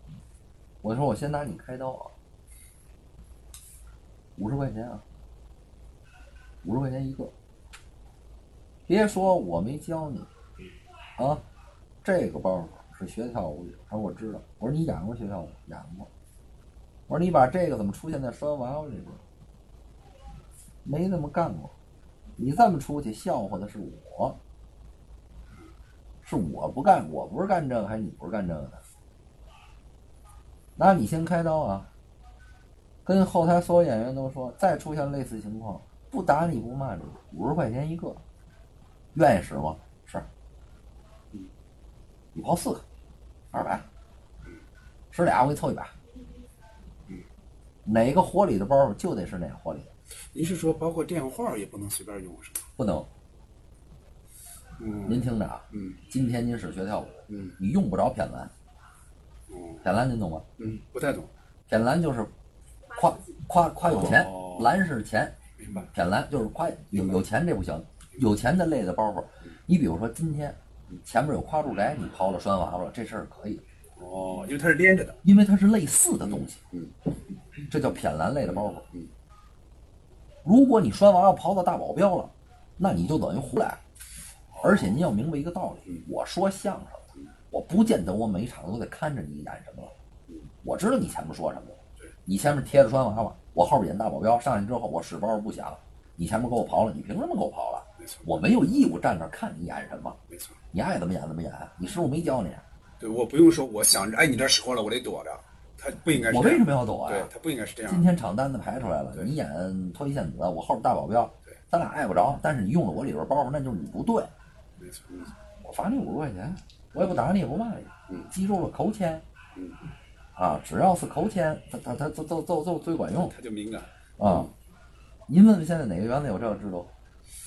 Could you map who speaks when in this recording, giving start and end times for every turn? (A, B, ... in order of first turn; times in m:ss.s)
0:00.8-0:02.1 A
0:04.4-0:05.0 A
0:06.6-0:07.3 A
0:08.9-0:10.3 A
0:11.2-0:11.4 A
0:12.0-0:16.1 A
0:17.1-0:19.2 A
0:20.8-0:21.7 A
0:22.4-0:24.4 A
0:26.2-0:28.8 A
0:30.8-0:31.9 A
0:33.0-0:38.2 A
0:39.1-0:40.3 A
0:42.4-0:42.8 A
0:43.5-0:43.8 A
0:45.1-0:45.9 A
0:47.8-0:49.9 A
0:50.3-0:52.7 B
0:52.8-0:53.1 A
0:54.8-0:56.0 B
0:55.1-0:58.5 A
0:57.3-0:57.6 B
0:59.5-0:59.8 B
0:59.8-1:00.4 A
1:00.6-1:01.3 B
1:01.7-1:02.3 A
1:03.0-1:05.4 A
1:03.8-1:04.7 B
1:05.6-1:05.9 B
1:05.9-1:13.6 A
1:06.9-1:07.2 B
1:14.0-1:15.2 B
1:15.2-1:16.6 A
1:16.3-1:16.9 B
1:17.7-1:18.8 A
1:18.4-1:19.1 B
1:20.4-1:23.8 A
1:24.6-1:24.9 B
1:24.6-1:29.9 A
1:30.6-1:40.2 A
1:38.0-1:38.2 B
1:40.3-1:40.6 B
1:40.7-1:42.6 A
1:43.0-1:48.1 B
1:46.1-1:47.3 A
1:47.9-1:54.3 A
1:54.8-1:55.3 B
1:55.6-1:59.2 A
2:00.4-2:03.3 A
2:03.2-2:04.5 B
2:04.2-2:04.5 A
2:05.3-2:06.9 A